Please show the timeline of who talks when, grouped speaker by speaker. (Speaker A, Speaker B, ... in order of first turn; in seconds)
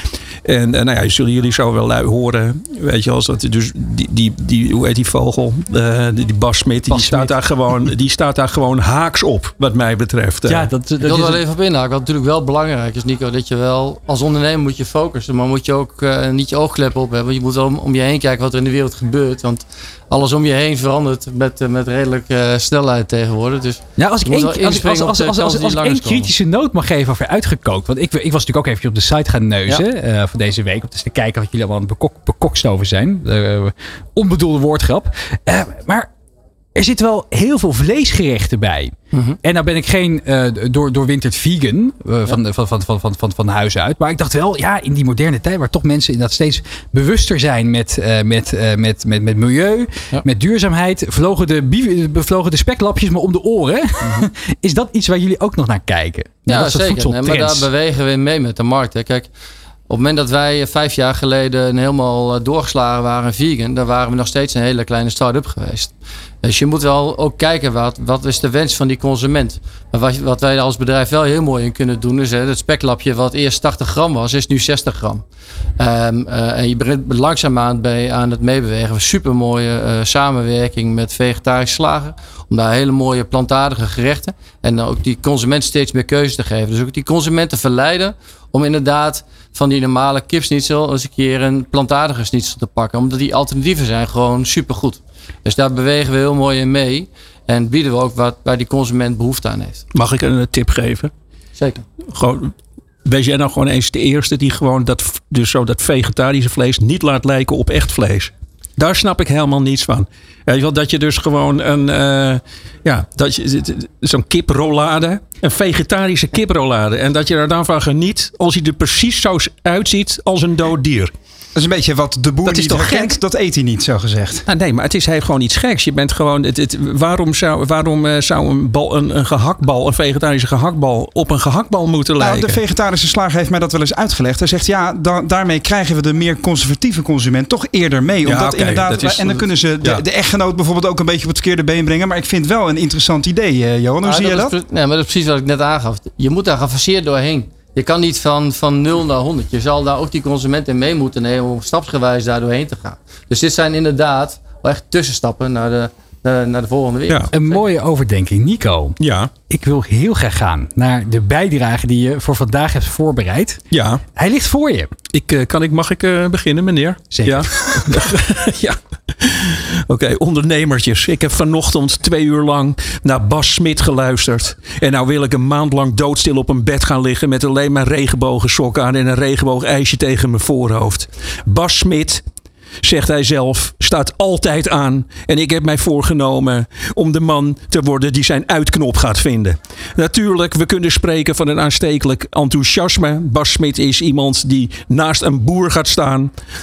Speaker A: 0.4-10.7, 99.9-101.1, 102.1-102.5, 103.0-121.1, 122.4-123.2, 124.5-132.6, 138.2-140.0, 159.0-159.3, 163.7-164.0, 165.1-182.2, 182.8-196.3
Speaker B: 6.9-7.3, 10.4-11.4, 24.0-36.1, 36.7-57.7, 157.3-159.0, 159.5-163.6, 164.2-164.9, 167.1-168.1
Speaker C: 11.0-26.3, 56.5-59.3, 59.9-65.9, 66.4-75.2, 75.8-99.8, 101.6-101.8, 144.0-157.5
Speaker D: 121.5-124.4, 132.2-144.5